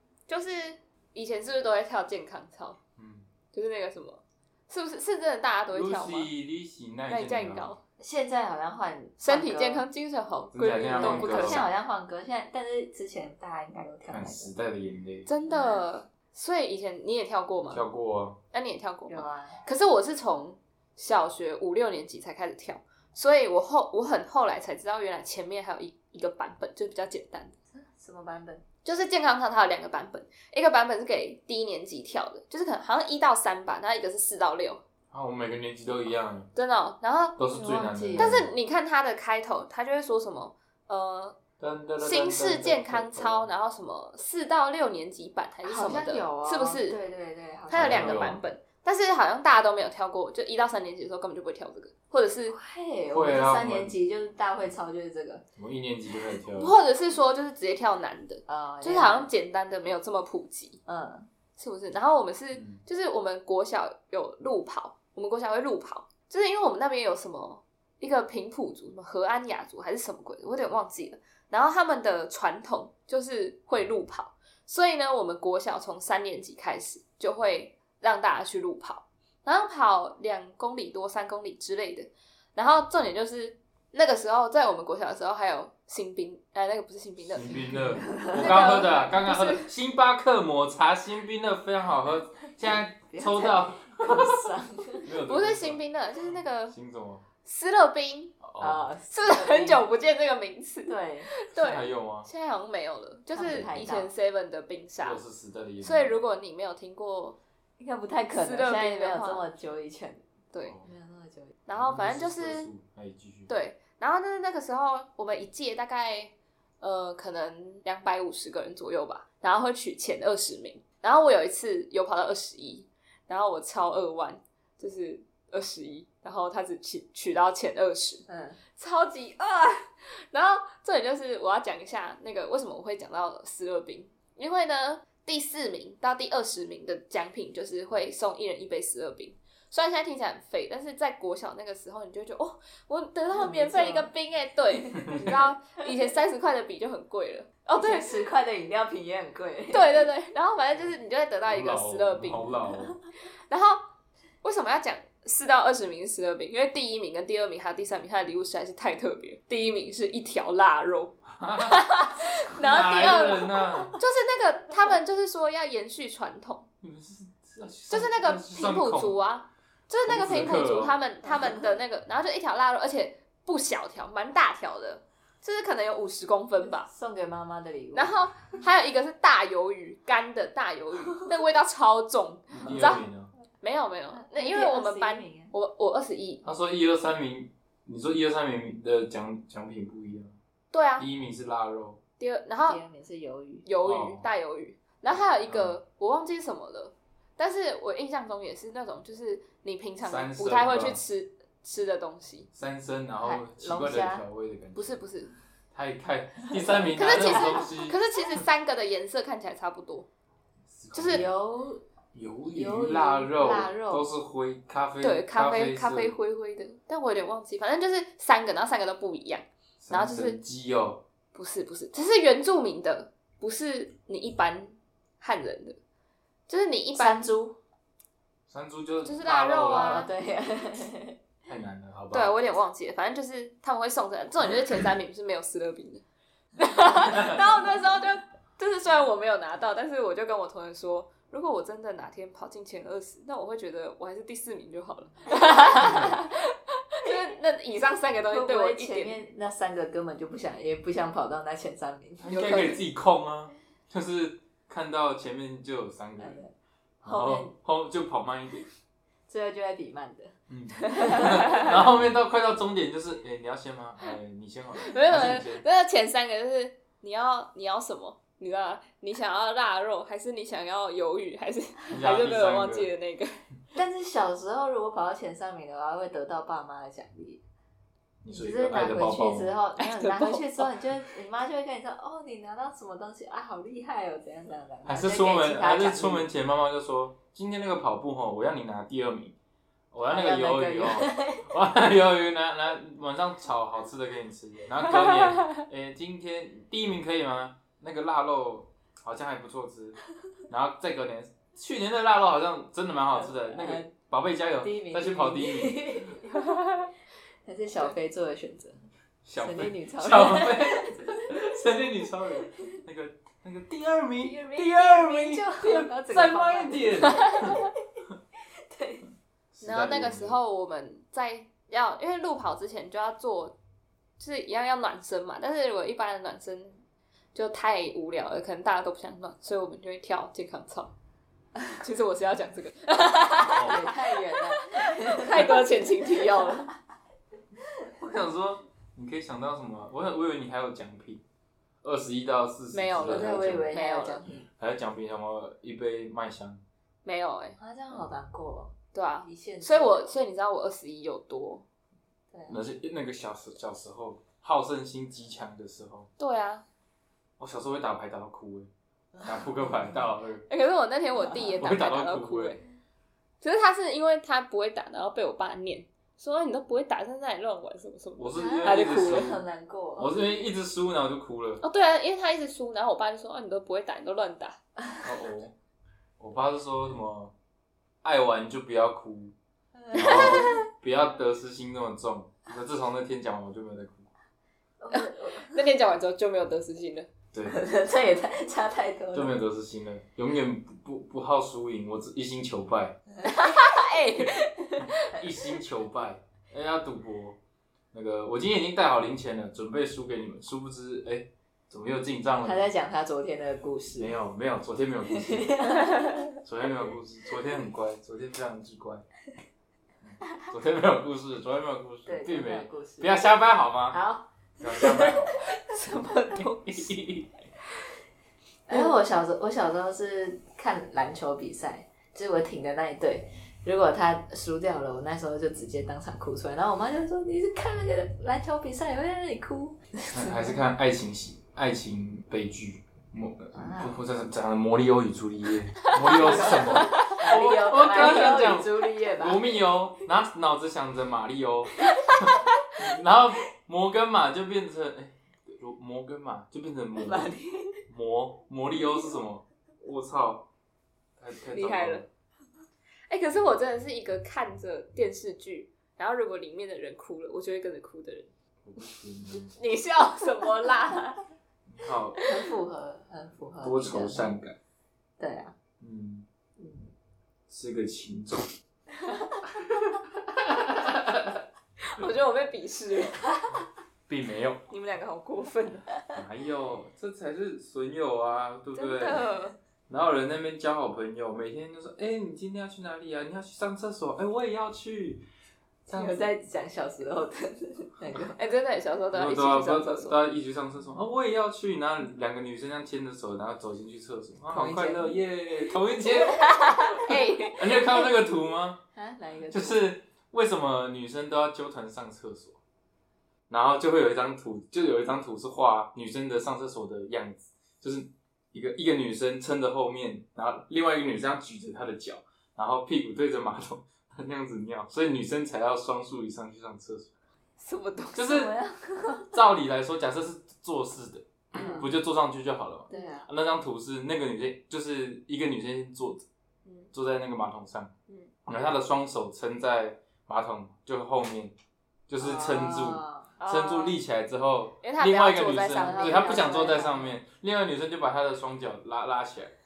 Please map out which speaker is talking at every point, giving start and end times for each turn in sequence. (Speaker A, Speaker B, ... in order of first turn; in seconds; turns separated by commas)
Speaker A: 0.3-2.8, Speaker B: 3.0-3.3, Speaker A: 3.5-6.3, Speaker B: 5.7-7.7, Speaker A: 7.1-7.8, Speaker C: 8.0-9.9, Speaker A: 9.2-11.7, Speaker B: 10.5-11.6, Speaker C: 10.9-14.5, Speaker B: 14.1-15.3, Speaker A: 15.3-17.8, Speaker C: 15.4-15.8, Speaker B: 17.7-18.4, Speaker A: 18.5-27.6, Speaker C: 19.1-19.6, Speaker C: 27.8-28.6, Speaker A: 28.9-34.8, Speaker B: 35.1-36.5, Speaker A: 36.6-37.4, Speaker B: 37.4-38.5, Speaker C: 37.5-38.5, Speaker A: 38.1-41.4, Speaker B: 41.6-43.5, Speaker A: 42.0-47.0, Speaker C: 45.6-48.4, Speaker A: 47.7-52.6, Speaker B: 47.7-48.4, Speaker C: 52.5-55.4, Speaker B: 53.1-53.9, Speaker B: 55.6-56.7, Speaker A: 56.6-60.8, Speaker C: 58.5-59.3, Speaker C: 60.9-61.3, Speaker A: 61.6-87.6, Speaker B: 62.5-62.8, Speaker B: 87.2-94.5, Speaker C: 88.0-88.8, Speaker A: 88.3-89.7, Speaker C: 93.1-95.1, Speaker B: 95.0-95.8, Speaker A: 95.3-96.8, Speaker B: 96.7-97.2, Speaker A: 97.4-98.4, Speaker B: 98.4-98.9, Speaker C: 98.6-99.9, Speaker A: 99.1-105.2, Speaker C: 100.9-101.3, Speaker B: 101.5-102.3, Speaker C: 103.3-104.1, Speaker B: 105.0-106.2, Speaker A: 105.8-107.4, Speaker C: 107.8-110.2, Speaker A: 108.3-109.5, Speaker B: 110.6-110.9, Speaker C: 110.8-111.6, Speaker A: 111.7-112.7, Speaker B: 111.8-113.5, Speaker A: 113.5-128.3, Speaker C: 128.3-128.6, Speaker A: 128.8-148.2, Speaker C: 143.3-144.1, Speaker C: 144.9-145.3, Speaker C: 147.8-150.1, Speaker A: 149.7-152.7, Speaker B: 151.5-153.0, Speaker A: 153.5-153.8, Speaker A: 154.4-166.7, Speaker B: 161.3-164.0, Speaker B: 166.8-169.2, Speaker A: 167.9-176.9, Speaker B: 170.0-171.0, Speaker C: 171.3-171.7, Speaker C: 176.6-178.2, Speaker A: 177.9-183.1, Speaker B: 182.5-183.3, Speaker A: 183.6-186.4, Speaker C: 184.1-185.5, Speaker B: 186.4-190.4, Speaker A: 190.7-191.1, Speaker B: 191.0-192.0, Speaker A: 192.2-192.8, Speaker C: 192.7-193.7, Speaker A: 193.7-202.5, Speaker B: 193.8-194.3, Speaker B: 195.1-195.8, Speaker B: 200.0-201.0, Speaker B: 202.5-205.0, Speaker C: 203.2-204.2, Speaker A: 204.8-205.3, Speaker B: 205.7-208.0, Speaker A: 206.9-210.1, Speaker C: 207.2-207.6, Speaker B: 210.7-211.3, Speaker A: 210.9-211.2, Speaker C: 211.0-211.8, Speaker B: 212.1-216.2, Speaker C: 212.5-214.1, Speaker A: 215.0-220.4, Speaker B: 219.8-221.0, Speaker A: 221.3-225.8, Speaker A: 226.5-227.2, Speaker C: 226.9-227.6, Speaker B: 228.5-230.1, Speaker A: 229.1-230.1, Speaker C: 229.7-231.2, Speaker B: 231.5-232.3, Speaker A: 232.1-236.1, Speaker A: 236.6-249.2, Speaker B: 245.8-246.1, Speaker C: 248.3-252.3, Speaker B: 252.2-256.4, Speaker A: 252.3-252.8, Speaker C: 256.2-256.5, Speaker C: 257.0-257.5, Speaker B: 257.0-258.7, Speaker C: 259.3-260.4, Speaker B: 260.5-265.6, Speaker C: 260.9-261.8, Speaker A: 260.9-261.7, Speaker A: 264.8-273.4, Speaker B: 271.9-272.9, Speaker C: 273.7-277.4, Speaker B: 278.2-279.6, Speaker C: 278.3-286.3, Speaker A: 279.8-280.8, Speaker B: 284.9-289.4, Speaker B: 289.9-306.2, Speaker C: 290.0-291.5, Speaker C: 303.2-303.9, Speaker C: 304.6-306.6, Speaker C: 307.4-308.8, Speaker B: 309.2-317.6, Speaker C: 309.4-311.4, Speaker C: 314.2-317.8, Speaker C: 318.5-319.1, Speaker B: 319.5-320.4, Speaker A: 319.6-323.6, Speaker A: 324.2-326.8, Speaker A: 327.3-330.9, Speaker A: 331.7-336.7, Speaker C: 333.4-336.7, Speaker B: 333.4-333.8, Speaker B: 338.0-341.2, Speaker B: 341.8-343.7, Speaker A: 342.7-344.2, Speaker C: 343.0-344.5, Speaker B: 344.6-346.6, Speaker A: 347.1-347.6, Speaker C: 347.6-350.0, Speaker A: 348.9-351.6, Speaker C: 352.3-352.6, Speaker B: 352.5-356.1, Speaker A: 356.2-356.6, Speaker B: 357.4-358.7, Speaker B: 359.2-360.5, Speaker A: 360.5-362.6, Speaker B: 361.6-362.6, Speaker A: 363.4-369.3, Speaker B: 368.2-369.4, Speaker C: 368.4-370.1, Speaker B: 370.0-371.6, Speaker A: 371.6-374.6, Speaker B: 375.0-375.5, Speaker B: 376.2-377.3, Speaker B: 378.0-379.3, Speaker C: 379.9-380.6, Speaker B: 379.9-384.1, Speaker C: 384.8-385.6, Speaker A: 384.9-387.1, Speaker B: 387.3-387.6, Speaker C: 387.5-389.4, Speaker B: 389.1-393.0, Speaker A: 393.2-394.5, Speaker C: 393.2-394.9, Speaker B: 394.9-397.4, Speaker B: 397.9-402.7, Speaker C: 402.4-404.1, Speaker B: 404.0-405.7, Speaker C: 405.1-406.4, Speaker B: 406.4-409.0, Speaker B: 410.0-414.0, Speaker C: 412.1-413.2, Speaker C: 413.9-416.4, Speaker B: 414.6-415.4, Speaker A: 415.6-416.9, Speaker B: 416.7-417.3, Speaker C: 418.7-430.6, Speaker B: 430.1-447.3, Speaker C: 433.5-434.0, Speaker A: 436.0-437.2, Speaker C: 436.0-439.6, Speaker C: 447.0-447.8, Speaker B: 447.9-450.5, Speaker B: 451.2-452.1, Speaker A: 451.5-452.1, Speaker A: 453.1-458.3, Speaker B: 458.6-459.6, Speaker A: 459.6-461.2, Speaker B: 461.7-462.2, Speaker C: 462.3-464.4, Speaker B: 463.6-464.6, Speaker C: 465.2-465.5, Speaker B: 465.8-466.3, Speaker C: 466.6-466.9, Speaker B: 467.5-468.5, Speaker C: 469.1-469.5, Speaker B: 469.6-471.4, Speaker A: 471.8-473.4, Speaker B: 474.1-474.6, Speaker A: 474.7-475.9, Speaker B: 476.1-479.3, Speaker A: 478.8-479.6, Speaker B: 479.9-485.2, Speaker B: 485.9-486.3, Speaker C: 485.9-488.4, Speaker A: 488.4-490.2, Speaker B: 489.1-498.8, Speaker C: 494.5-495.2, Speaker A: 496.2-497.8, Speaker C: 498.9-499.8, Speaker B: 499.5-502.6, Speaker B: 503.5-517.1, Speaker A: 517.6-518.4, Speaker B: 518.1-518.5, Speaker C: 518.2-519.3, Speaker B: 519.3-526.2, Speaker C: 521.5-521.9, Speaker A: 521.6-521.9, Speaker C: 522.9-523.3, Speaker A: 526.7-526.9, Speaker B: 526.9-527.9, Speaker A: 528.1-528.3, Speaker B: 528.5-531.5, Speaker B: 532.1-539.5, Speaker C: 532.2-533.3, Speaker A: 533.4-534.0, Speaker A: 534.8-536.9, Speaker C: 535.8-537.1